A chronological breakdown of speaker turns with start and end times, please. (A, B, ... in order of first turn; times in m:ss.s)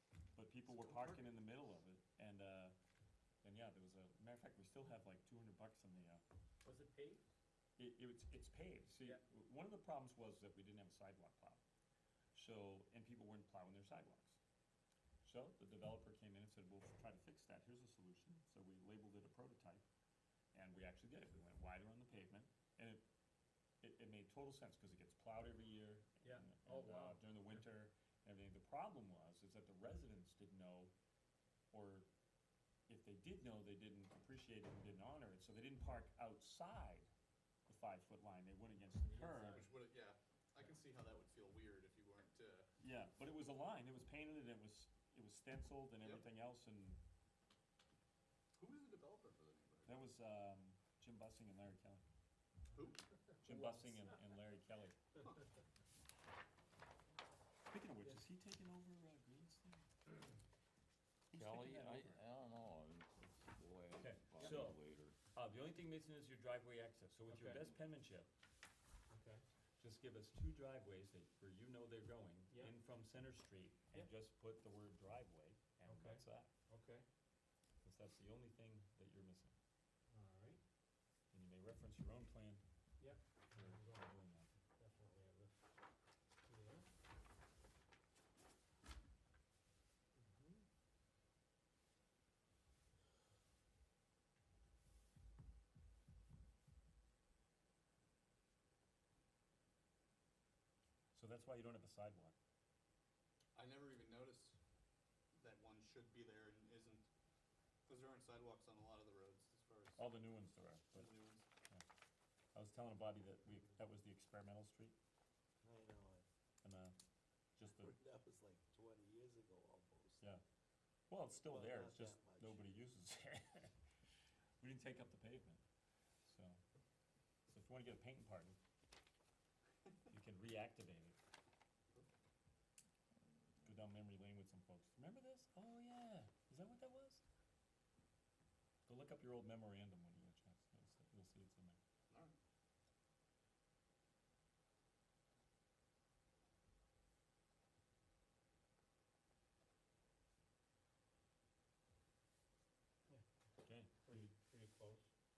0:00.3-0:02.8 A
0:03.4-0:06.2 A
0:06.6-0:07.2 B
0:07.8-0:11.6 A
0:12.3-0:14.4 A
0:15.2-0:19.8 A
0:20.5-0:23.0 A
0:23.8-0:30.9 A
0:26.2-0:27.2 B
0:31.7-0:32.1 A
0:32.9-0:37.1 A
0:37.7-0:39.7 A
0:39.1-0:42.7 C
0:42.8-0:47.0 A
0:48.6-0:50.0 C
0:49.8-0:52.0 A
0:52.7-0:53.0 C
0:53.4-0:55.0 A
0:53.4-0:54.0 B
0:57.7-0:59.9 A
1:01.3-1:02.2 A
1:01.3-1:05.2 D
1:04.0-1:04.8 A
1:05.3-1:08.3 A
1:07.3-1:07.7 B
1:09.1-1:09.4 B
1:09.8-1:16.5 A
1:15.9-1:17.1 B
1:17.8-1:19.5 A
1:20.1-1:20.6 B
1:21.3-1:22.6 A
1:23.0-1:24.2 B
1:23.5-1:24.5 A
1:24.8-1:25.6 B
1:26.4-1:26.9 B
1:30.2-1:30.7 B
1:41.1-1:42.4 A
1:43.6-1:44.6 C
1:45.3-1:47.1 C
1:47.9-1:50.0 C
1:50.0-1:51.1 A
1:50.9-1:51.4 C
1:52.5-1:55.0 A
1:55.6-1:56.3 E
1:56.6-1:57.0 A
1:57.6-1:57.9 A
1:57.8-2:00.2 E
2:01.1-2:03.8 A
2:01.5-2:02.6 E
2:04.6-2:05.6 A
2:06.2-2:06.6 A
2:07.5-2:08.6 A
2:10.1-2:11.2 A
2:13.6-2:17.2 A
2:18.9-2:21.8 A
2:22.1-2:22.4 C
2:33.6-2:34.2 A
2:34.0-2:35.1 B